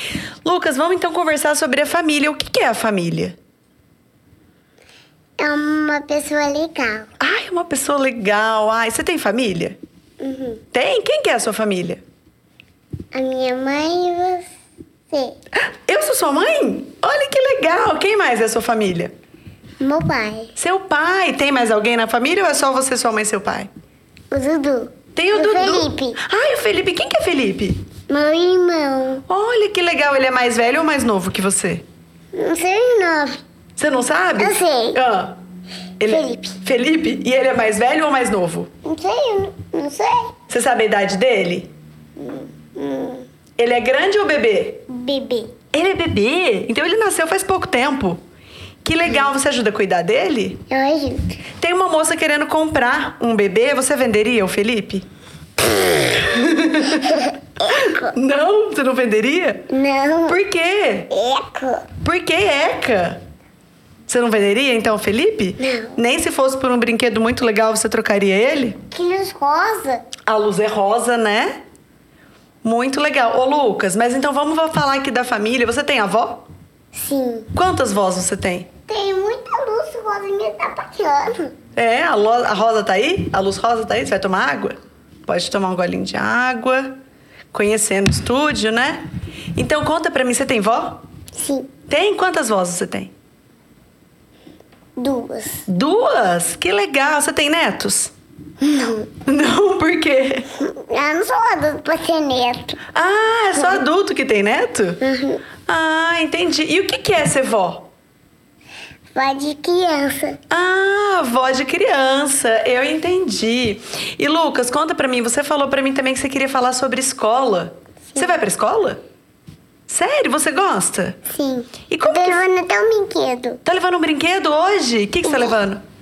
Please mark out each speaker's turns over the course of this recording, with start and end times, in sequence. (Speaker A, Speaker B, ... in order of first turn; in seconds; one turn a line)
Speaker A: 0.4-3.4
Speaker B: 5.4-7.1
Speaker A: 7.2-9.8
Speaker B: 10.2-10.6
Speaker A: 10.7-12.0
Speaker B: 13.1-14.5
Speaker B: 15.1-15.4
Speaker A: 15.9-19.1
Speaker B: 19.8-20.5
Speaker A: 20.6-23.7
Speaker B: 24.3-26.2
Speaker A: 25.2-27.8
Speaker B: 28.1-29.2
Speaker A: 29.3-31.8
Speaker B: 32.3-33.4
Speaker A: 33.8-35.4
Speaker B: 34.4-35.0
Speaker A: 36.0-38.7
Speaker B: 36.0-36.6
Speaker B: 38.8-40.3
Speaker A: 40.5-41.7
Speaker B: 42.2-43.3
Speaker A: 43.6-44.9
Speaker B: 44.9-45.5
Speaker A: 45.7-48.2
Speaker A: 48.8-50.6
Speaker B: 50.7-51.4
Speaker A: 51.6-55.0
Speaker A: 55.7-59.7
Speaker B: 59.7-60.4
Speaker A: 60.3-61.1
Speaker B: 61.1-61.9
Speaker A: 62.0-63.2
Speaker A: 64.1-68.8
Speaker B: 65.6-66.0
Speaker B: 68.9-70.1
Speaker A: 70.3-71.6
Speaker A: 72.6-76.5
Speaker B: 76.9-77.5
Speaker A: 77.5-78.7
Speaker B: 78.9-81.5
Speaker A: 81.8-87.0
Speaker A: 87.5-89.0
Speaker A: 89.5-91.0
Speaker B: 91.3-91.7
Speaker A: 91.9-93.1
Speaker B: 95.0-95.6
Speaker A: 95.7-98.1
Speaker B: 98.6-99.1
Speaker A: 99.2-100.5
Speaker B: 100.6-102.8
Speaker A: 102.9-105.0
Speaker B: 105.0-105.4
Speaker A: 105.7-107.9
Speaker B: 109.1-110.4
Speaker A: 110.5-119.0
Speaker B: 118.1-118.4
Speaker A: 119.9-121.2
Speaker B: 121.3-123.6
Speaker A: 121.9-122.4
Speaker A: 123.6-125.8
Speaker B: 125.3-125.5